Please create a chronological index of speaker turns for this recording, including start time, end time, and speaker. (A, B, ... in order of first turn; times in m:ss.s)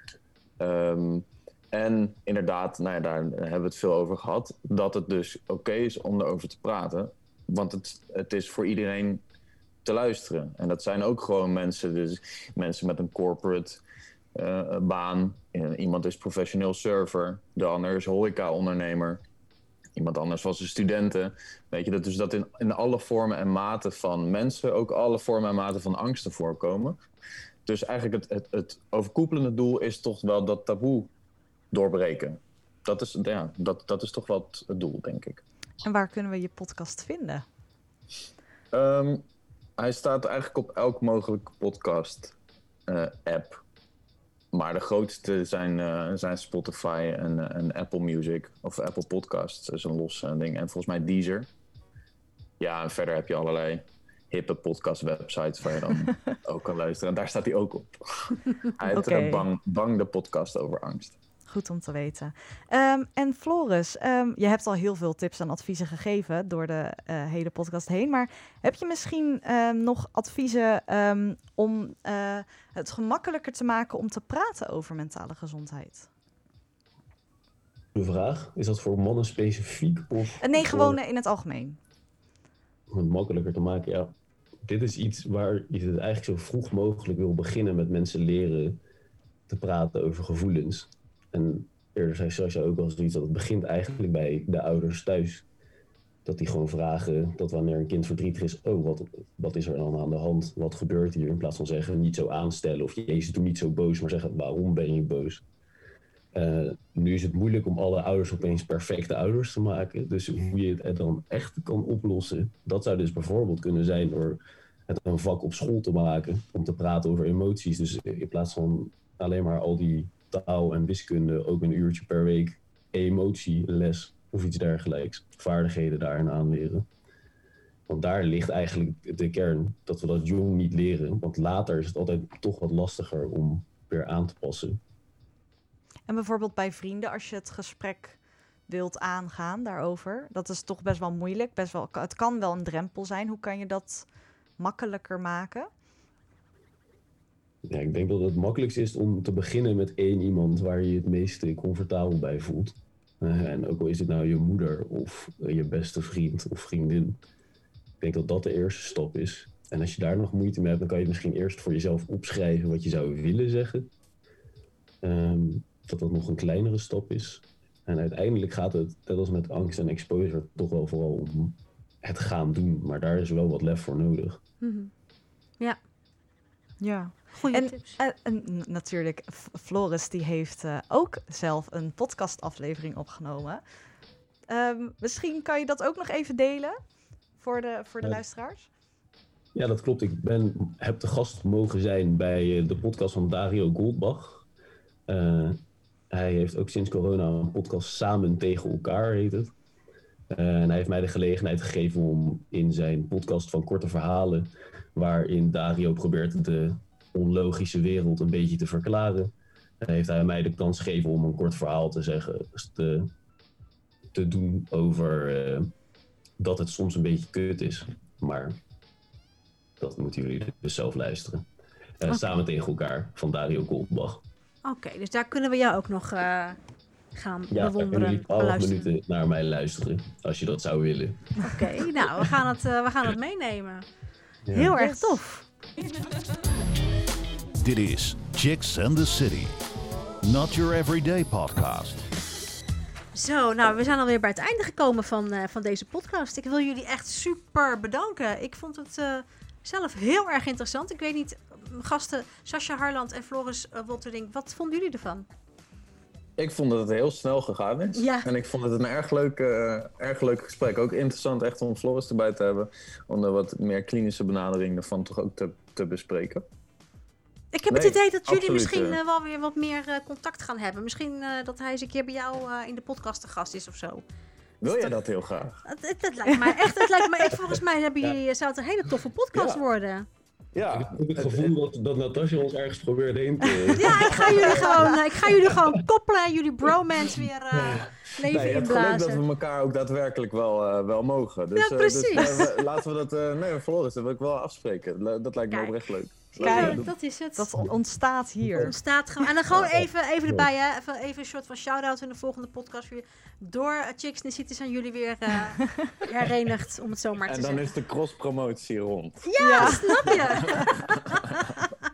0:00.6-0:09.2 A
0:09.8-0:13.8 A
0:14.3-0:19.2 A
0:20.0-0:27.0 A
0:27.6-0:31.1 A
0:31.7-0:35.4 A
0:35.8-0:37.4 B
0:38.7-0:39.2 A
0:39.8-0:42.3 A
0:42.9-0:43.6 A
0:44.5-0:51.5 A
0:52.6-1:01.2 A
0:58.8-0:59.5 B
1:01.5-1:16.1 B
1:17.9-1:21.0 C
1:20.4-1:21.8 B
1:22.9-1:28.8 C
1:29.5-1:35.4 C
1:36.2-1:45.4 C
1:46.3-2:06.9 C
2:07.9-2:14.8 C
2:16.1-2:25.7 B
2:27.7-2:37.2 C
2:38.0-2:43.9 C
2:45.0-2:54.4 C
2:54.6-2:54.9 D
2:56.8-3:03.6 B
2:57.3-2:58.0 D
3:04.5-3:06.8 B
3:07.4-3:08.7 B
3:09.5-3:14.4 C
3:15.1-3:19.5 C
3:20.3-3:33.1 C
3:34.1-3:35.7 C
3:36.4-3:38.6 C
3:39.8-3:41.4 C
3:42.0-3:44.2 C
3:42.1-3:42.4 D
3:44.6-3:46.6 D
3:47.1-3:48.9 D
3:47.5-3:51.4 C
3:51.4-3:53.8 D
3:54.5-3:54.7 C
3:54.5-3:55.4 D
3:54.6-3:55.2 B
3:57.6-3:59.6 E
4:00.2-4:02.0 E
4:03.1-4:15.2 D
4:16.4-4:26.4 A
4:17.9-4:18.3 D
4:27.5-4:34.0 D
4:27.7-4:29.0 A
4:34.6-4:35.6 A
4:35.6-4:40.1 D
4:36.3-4:36.9 B
4:39.3-4:39.6 A
4:40.5-4:41.5 A
4:40.6-4:45.8 C
4:43.7-4:49.2 D
4:44.1-4:44.8 A
4:47.5-4:48.7 C
4:48.2-4:56.8 A
4:51.5-4:52.5 D
4:55.5-4:57.5 D
4:56.4-4:58.7 B
4:56.6-4:56.9 C
4:58.4-4:58.7 C
4:58.6-5:07.7 D
4:59.7-5:00.5 C
5:07.3-5:11.4 A
5:09.3-5:11.7 D
5:09.4-5:10.5 B